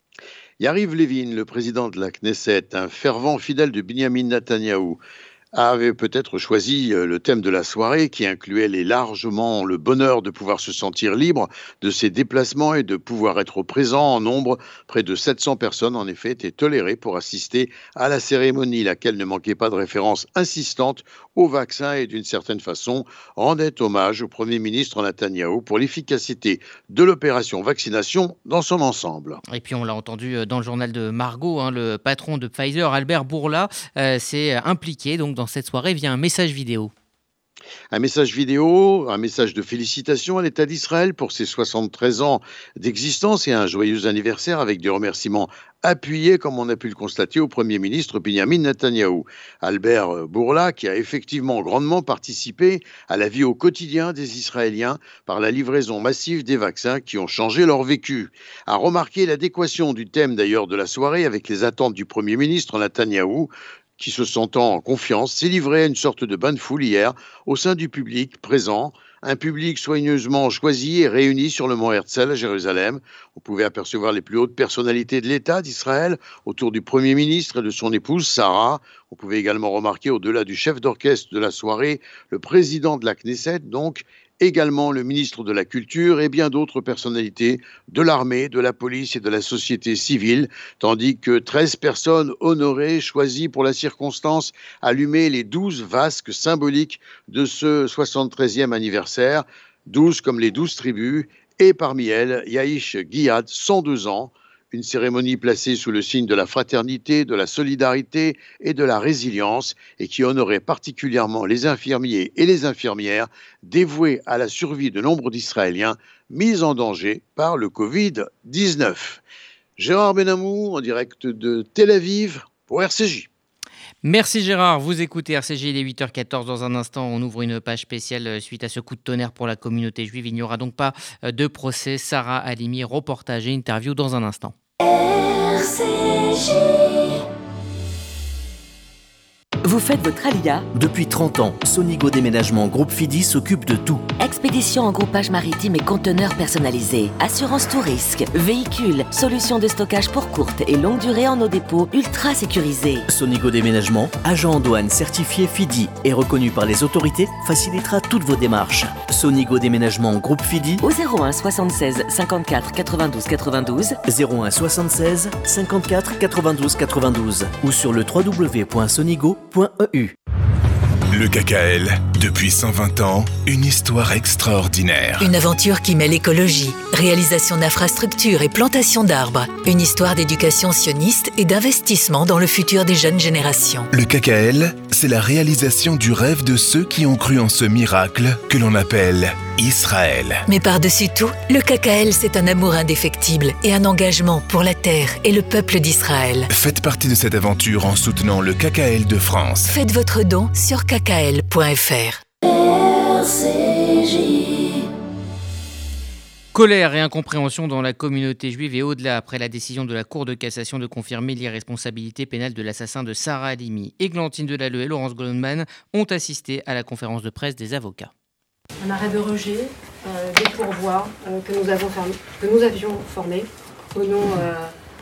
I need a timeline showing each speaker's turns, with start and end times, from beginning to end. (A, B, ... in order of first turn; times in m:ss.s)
0:00.6-0:05.0 A
0:05.5-0:29.4 A
0:29.5-0:36.9 B
0:37.9-1:59.2 A
1:59.8-2:03.3 A
2:04.0-2:14.5 B
2:19.6-2:20.7 C
2:20.7-2:24.1 D
2:24.2-2:33.0 C
2:33.1-2:40.8 D
2:40.8-2:44.0 C
2:44.1-2:50.1 D
2:51.1-2:55.3 E
2:55.2-3:03.9 F
3:03.9-3:10.4 E
3:10.5-3:16.5 F
3:16.5-3:19.7 E
3:19.7-3:22.2 F
3:26.5-3:38.1 B
3:38.8-3:44.7 G